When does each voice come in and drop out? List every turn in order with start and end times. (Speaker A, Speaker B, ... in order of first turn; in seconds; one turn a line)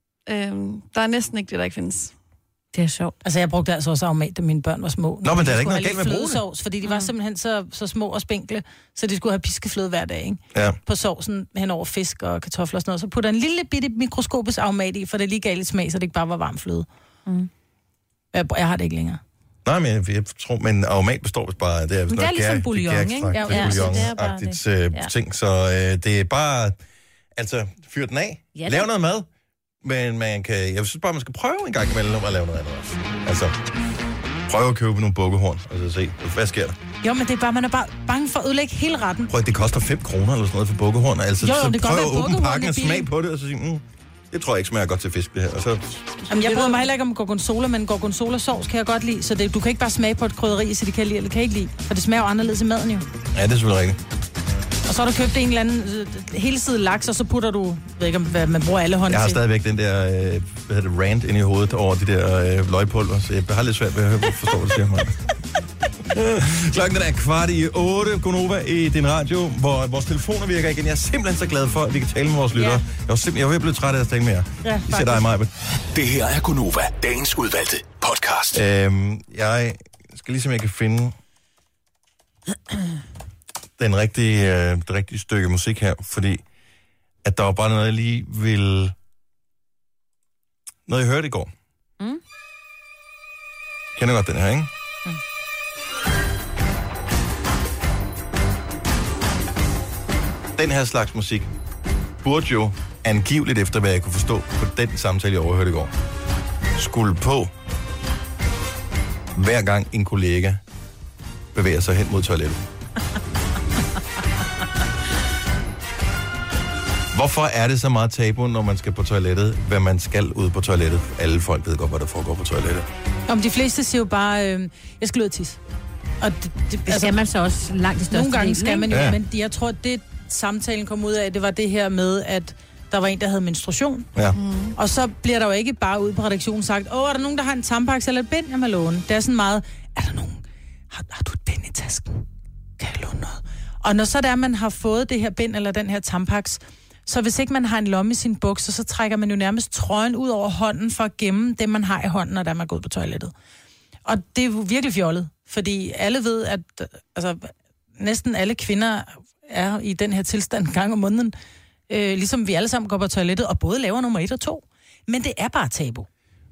Speaker A: 0.3-2.1
Speaker B: 2.7-3.1
Speaker C: 3.2-16.9
Speaker D: 5.2-6.4
Speaker B: 6.8-7.1
Speaker C: 18.3-19.2
Speaker D: 19.6-26.8
Speaker B: 22.1-25.1
Speaker C: 23.3-24.1
Speaker D: 27.4-29.3
Speaker B: 28.6-28.9
Speaker D: 29.8-33.5
Speaker D: 34.5-36.8
Speaker C: 37.0-39.3
Speaker D: 39.3-46.0
Speaker C: 41.4-43.1
Speaker C: 46.3-53.1
Speaker A: 46.4-46.8
Speaker D: 53.3-54.0
Speaker C: 54.9-59.4
Speaker D: 59.1-65.2
Speaker D: 66.1-75.5
Speaker C: 72.5-72.8
Speaker C: 74.6-75.3
Speaker E: 75.9-78.6
Speaker D: 78.5-81.2
Speaker D: 83.8-86.4
Speaker D: 87.2-89.0
Speaker D: 90.9-91.5
Speaker D: 94.0-94.7
Speaker D: 100.5-101.5
Speaker D: 102.2-105.9
Speaker D: 106.8-107.5
Speaker D: 109.3-110.6
Speaker D: 111.5-112.6
Speaker D: 117.1-122.9
Speaker C: 123.3-125.6
Speaker C: 126.2-127.2
Speaker B: 126.9-128.9
Speaker C: 128.1-134.1
Speaker D: 128.9-129.2
Speaker A: 134.3-134.8
Speaker C: 134.8-142.2
Speaker C: 142.8-153.3
Speaker C: 154.1-161.3
Speaker C: 161.9-166.1